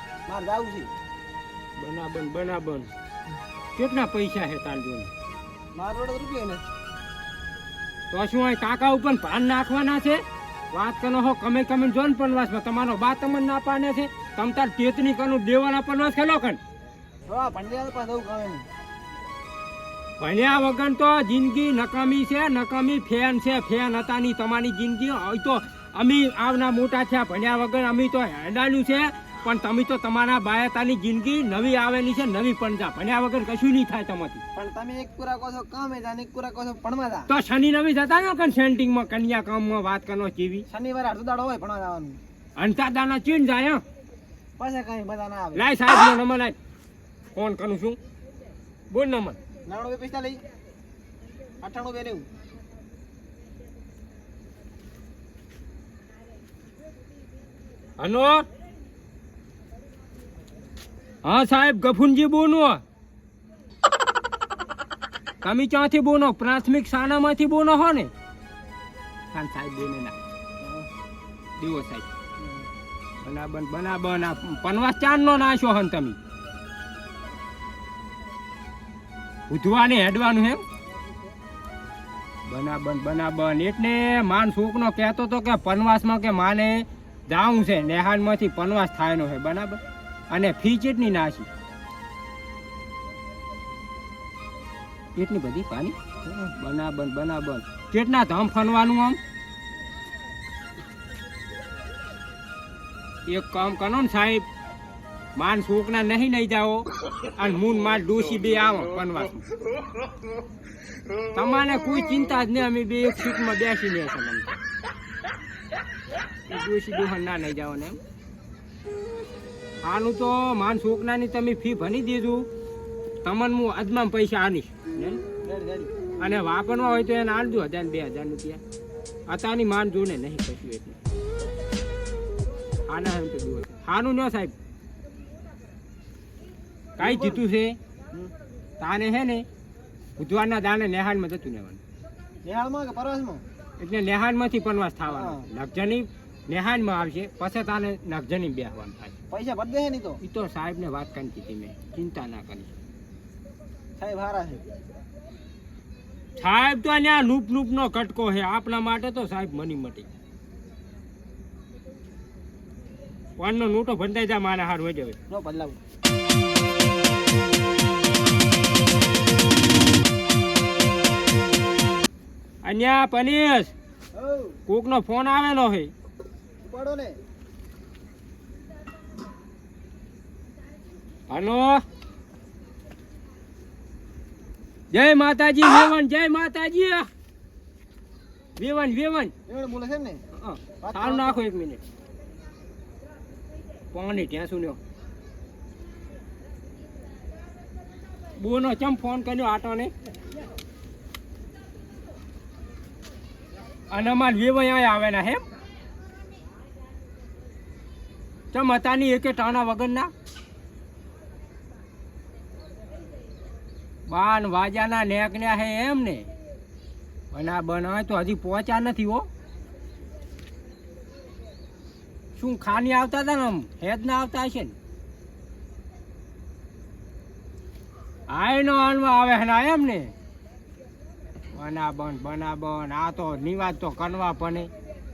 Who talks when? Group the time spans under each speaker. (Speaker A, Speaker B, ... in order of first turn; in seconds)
Speaker A: 0.3-0.9, 5.7-6.6, 17.3-18.7, 34.5-37.3, 40.7-42.2, 44.6-45.7, 49.7-50.4, 51.6-52.3, 70.6-70.9, 125.4-125.9, 137.0-137.4, 142.4-143.4, 145.1-145.4, 149.3-150.2, 154.0-154.7, 165.3-165.8, 174.1-174.6, 176.6-177.2, 189.5-190.2, 190.8-191.4
Speaker B: 1.8-2.9, 3.8-5.1, 8.1-16.6, 20.2-34.4, 37.3-40.6, 42.6-43.8, 45.5-46.5, 47.4-48.0, 48.9-49.4, 58.0-58.5, 61.2-62.8, 65.4-68.1, 69.3-70.2, 71.6-72.1, 73.2-76.2, 79.5-80.6, 82.5-91.5, 95.2-99.2, 103.3-104.5, 105.4-109.5, 111.3-114.6, 116.5-118.0, 119.8-122.5, 123.2-125.2, 126.2-128.6, 129.3-131.0, 132.9-134.5, 137.0-137.8, 138.8-139.4, 140.2-141.8, 143.8-149.1, 150.2-152.7, 156.4-160.1, 163.4-165.2, 172.6-173.7, 174.7-175.9, 181.3-181.8, 184.9-187.1, 188.6-189.3, 190.4-191.8, 193.9-194.8, 198.4-199.9, 203.9-205.4, 208.5-210.1, 214.1-216.3, 217.3-219.3, 222.4-224.8, 228.3-230.1, 231.5-234.7